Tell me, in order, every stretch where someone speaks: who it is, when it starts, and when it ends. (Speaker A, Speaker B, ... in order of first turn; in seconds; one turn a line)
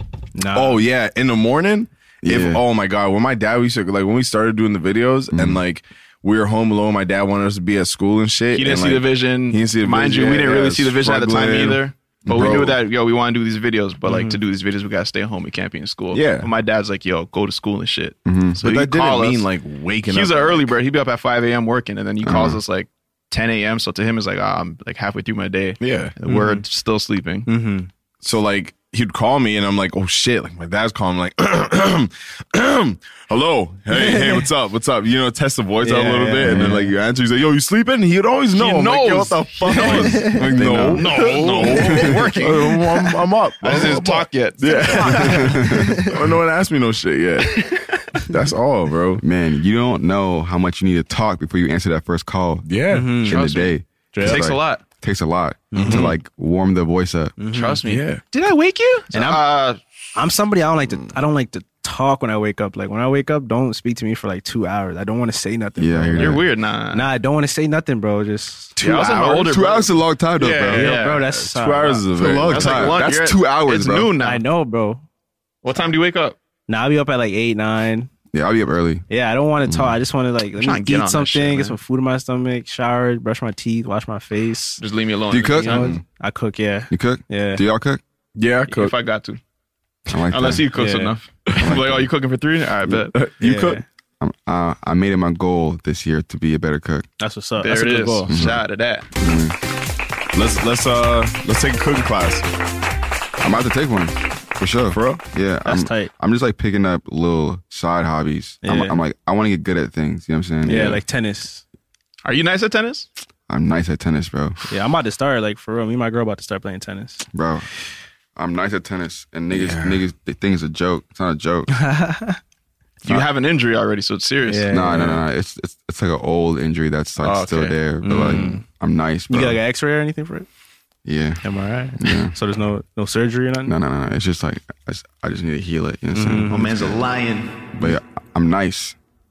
Speaker A: 0.3-0.8
Speaker B: 0.5-12.8
Speaker C: 2.2-2.6
Speaker C: 5.3-5.6
Speaker D: 8.5-19.5
Speaker C: 12.3-12.7
Speaker A: 14.1-14.4
Speaker B: 16.1-16.5
Speaker C: 18.2-18.6
Speaker B: 18.6-20.7
Speaker D: 20.1-27.5
Speaker C: 22.2-22.6
Speaker B: 25.8-26.1
Speaker A: 26.3-26.6
Speaker A: 27.5-27.9
Speaker B: 28.2-49.2
Speaker A: 33.9-34.5
Speaker A: 35.8-36.9
Speaker C: 36.5-36.7
Speaker D: 38.5-45.6
Speaker A: 39.9-40.4
Speaker C: 40.4-41.2
Speaker C: 41.7-42.3
Speaker A: 45.1-46.1
Speaker C: 45.2-46.1
Speaker D: 47.5-47.9
Speaker C: 49.2-57.4
Speaker B: 52.7-53.2
Speaker A: 52.9-53.4
Speaker D: 53.3-54.8
Speaker A: 54.1-54.5
Speaker A: 55.7-56.1
Speaker B: 55.8-56.1
Speaker A: 57.4-57.8
Speaker D: 57.5-59.8
Speaker B: 57.9-58.2
Speaker A: 59.1-59.5
Speaker A: 60.1-68.7
Speaker C: 65.8-66.5
Speaker D: 66.2-67.1
Speaker B: 68.8-69.6
Speaker D: 68.8-69.9
Speaker C: 69.5-70.9
Speaker B: 70.4-73.1
Speaker D: 70.6-71.2
Speaker A: 70.7-72.1
Speaker C: 72.2-74.2
Speaker D: 72.2-74.4
Speaker A: 74.2-75.0
Speaker D: 75.6-76.4
Speaker A: 76.7-78.1
Speaker C: 78.3-79.0
Speaker A: 79.1-84.8
Speaker D: 80.6-81.8
Speaker D: 84.8-85.9
Speaker C: 85.3-86.0
Speaker A: 85.5-87.6
Speaker B: 85.8-86.0
Speaker C: 86.9-88.0
Speaker B: 88.4-88.9
Speaker D: 88.7-89.4
Speaker C: 90.1-90.7
Speaker D: 90.3-93.2
Speaker A: 90.7-91.1
Speaker C: 91.5-92.1
Speaker B: 93.1-93.8
Speaker A: 93.4-93.8
Speaker C: 94.2-97.1
Speaker A: 97.2-98.4
Speaker D: 97.6-99.1
Speaker C: 98.3-98.6
Speaker C: 99.2-99.6
Speaker B: 100.3-102.5
Speaker C: 103.4-111.0
Speaker B: 104.9-105.2
Speaker A: 105.7-106.1
Speaker A: 108.6-109.0
Speaker A: 110.6-111.6
Speaker D: 112.2-113.1
Speaker C: 113.5-114.6
Speaker A: 114.7-117.2
Speaker C: 117.3-117.7
Speaker C: 118.4-121.8
Speaker B: 119.5-120.0
Speaker A: 121.7-122.4
Speaker D: 123.0-124.8
Speaker A: 124.5-125.2
Speaker C: 124.7-129.6
Speaker D: 127.2-127.8
Speaker A: 128.0-128.6
Speaker A: 129.3-130.5
Speaker C: 131.1-131.4
Speaker A: 131.4-133.8
Speaker C: 132.0-132.3
Speaker C: 133.7-137.0
Speaker A: 136.1-136.7
Speaker D: 136.5-137.7
Speaker C: 137.7-139.0